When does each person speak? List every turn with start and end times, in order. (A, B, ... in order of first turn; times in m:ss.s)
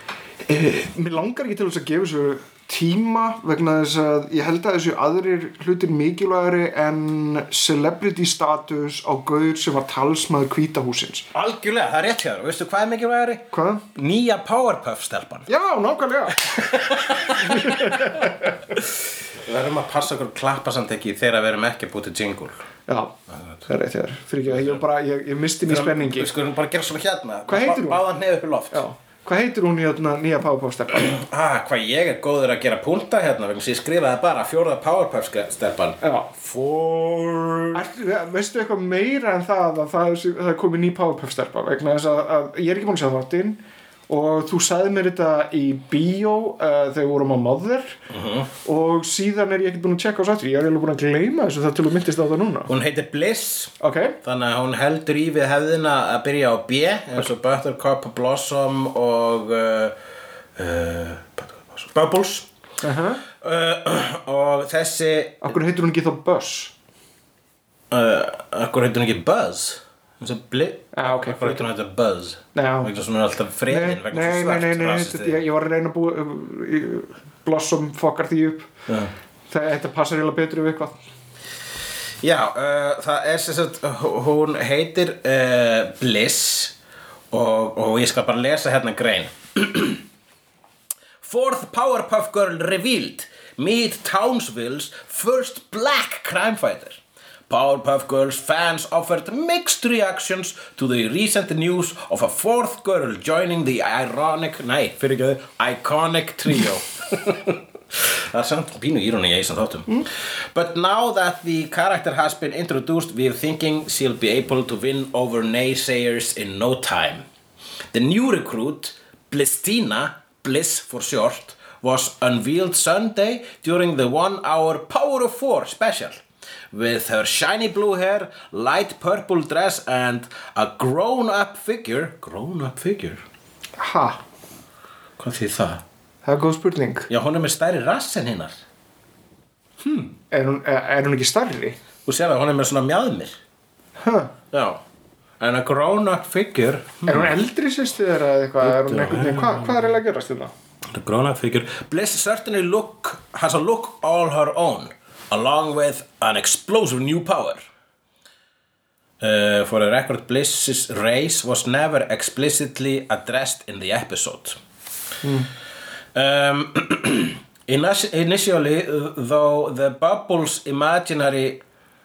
0:00.4-0:11.3 A
0:11.3-0:15.5 B
0:13.5-0:13.8 A
0:15.5-0:16.6 A
0:16.4-0:18.9 B
0:17.2-0:18.5 A
0:19.4-0:22.6 B
0:22.9-0:23.1 A
0:23.3-0:23.6 B
0:23.7-0:26.3 A
0:24.5-0:24.8 B
0:25.6-0:28.8 B
0:27.5-0:28.0 A
0:28.7-0:31.2 A
0:31.0-0:37.8 B
0:36.0-0:36.3 A
0:37.7-0:48.0 A
0:48.1-0:48.5 B
0:48.6-0:52.7 A
0:52.7-0:59.9 B
0:53.8-0:54.2 A
1:00.6-1:02.5 B
1:02.8-1:03.2 A
1:03.4-1:05.6 B
1:05.4-1:06.7 A
1:07.9-1:15.4 B
1:10.9-1:11.6 A
1:12.5-1:12.9 A
1:13.7-1:18.7 A
1:19.5-1:21.0 A
1:22.2-1:26.8 B
1:27.3-1:30.0 B
1:31.2-1:57.2 B
1:57.9-2:06.2 B
2:06.7-2:13.2 B
2:13.8-2:14.2 A
2:15.2-2:15.8 B
2:16.2-2:17.1 A
2:17.1-2:18.6 B
2:20.2-2:21.8 A
2:22.0-2:23.4 B
2:24.0-2:24.3 A
2:24.5-2:24.8 B
2:25.4-2:27.3 B
2:27.0-2:30.5 A
2:28.6-2:29.8 B
2:30.9-2:37.7 B
2:39.2-2:44.6 B
2:45.2-2:45.5 A
2:46.1-2:51.6 B